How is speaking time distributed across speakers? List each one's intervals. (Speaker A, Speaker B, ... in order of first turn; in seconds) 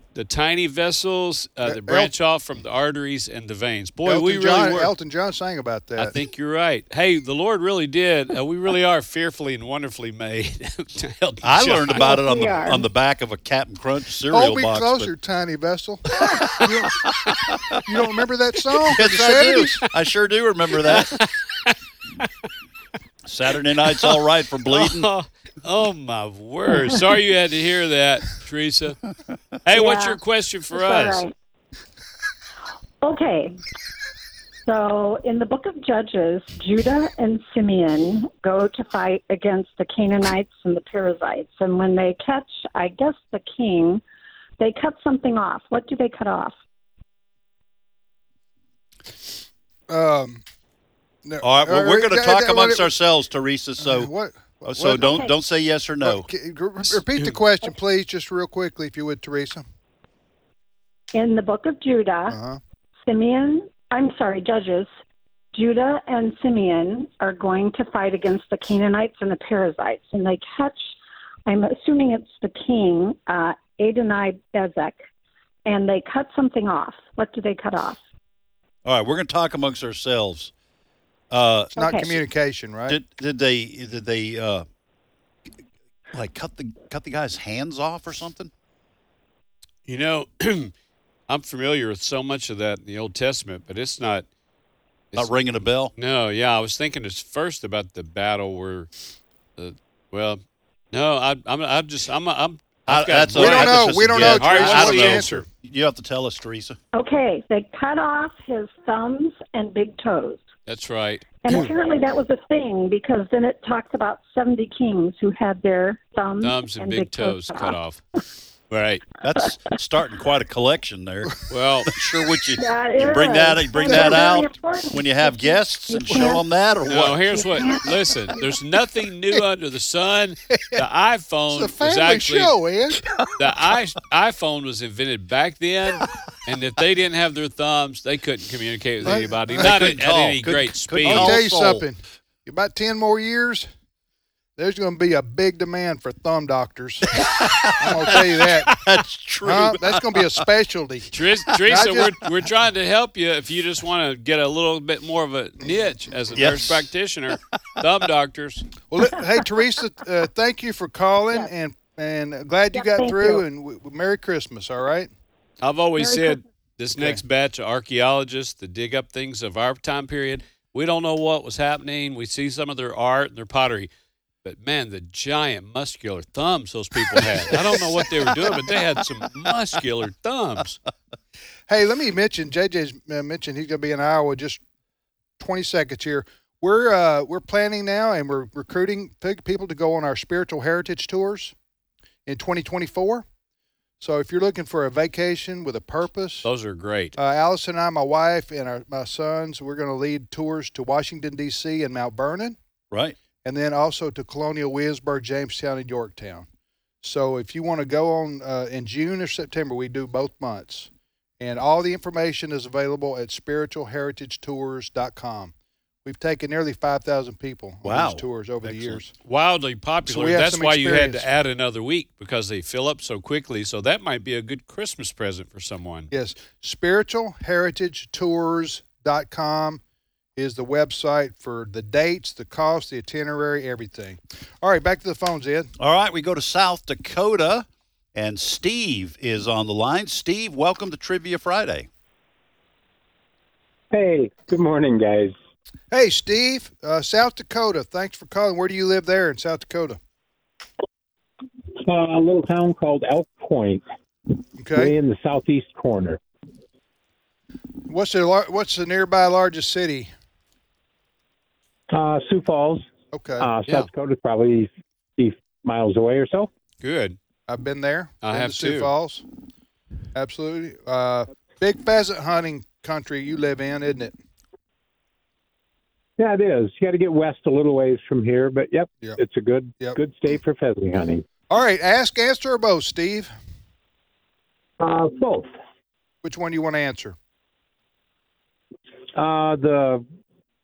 Speaker A: 0.1-4.9, 6.0-12.1, 20.9-22.3, 24.0-29.0, 29.6-31.2, 89.9-90.7, 91.3-94.2, 96.0-98.9, 99.6-100.4, 100.9-105.4, 110.7-111.5, 116.4-118.0, 118.7-119.1, 121.5-121.9, 126.9-132.5, 133.4-141.4, 151.1-158.7, 165.6-173.9, 174.4-180.8, 196.4-197.2, 219.2-226.1, 266.8-267.2, 268.2-268.9
Speaker B: 1.6-2.1, 4.0-6.2, 14.3-17.1, 17.8-19.8, 49.9-50.4, 51.2-52.9, 53.8-55.2, 56.0-59.6, 62.3-62.6, 81.8-83.0, 103.3-105.4, 123.9-124.2, 131.5-133.1, 139.0-139.9, 141.0-143.7, 144.6-148.8, 149.4-151.1, 151.7-152.2, 158.9-165.1, 181.7-184.6, 185.4-191.5, 192.2-193.2, 194.0-196.5, 197.2-202.6, 203.4-206.5, 207.0-210.9, 211.4-215.5, 216.0-219.1, 220.1-221.2, 226.1-229.8, 230.3-235.7, 245.9-250.0, 254.6-254.9, 257.9-260.1, 263.1-263.5, 267.5-269.2, 270.1-274.1, 281.5-283.3, 286.2-287.1
Speaker C: 11.4-15.1, 16.3-17.8, 18.9-21.2, 23.2-25.1, 51.4-54.1, 54.6-56.3, 78.8-80.5, 81.3-81.7, 82.9-84.7, 86.1-88.5, 95.1-95.9, 102.9-106.8, 119.2-121.3, 121.9-127.6, 139.5-141.8, 147.2-150.4, 156.3-156.9, 202.9-203.2, 217.8-218.9, 235.8-241.9
Speaker D: 11.9-12.8, 29.7-30.2, 30.7-31.3, 33.0-33.5, 34.6-44.0, 44.6-46.5, 55.0-55.3, 61.1-62.4, 63.1-64.9, 65.5-70.8, 71.5-75.0, 75.7-78.0, 81.8-82.2, 106.9-110.4, 111.4-117.8, 122.5-126.4, 127.3-128.0, 162.7-163.4, 166.0-166.3
Speaker E: 243.9-245.3, 251.8-253.8, 254.7-256.2, 261.9-262.8, 263.4-266.5, 276.2-281.2, 284.8-285.5, 289.1-290.1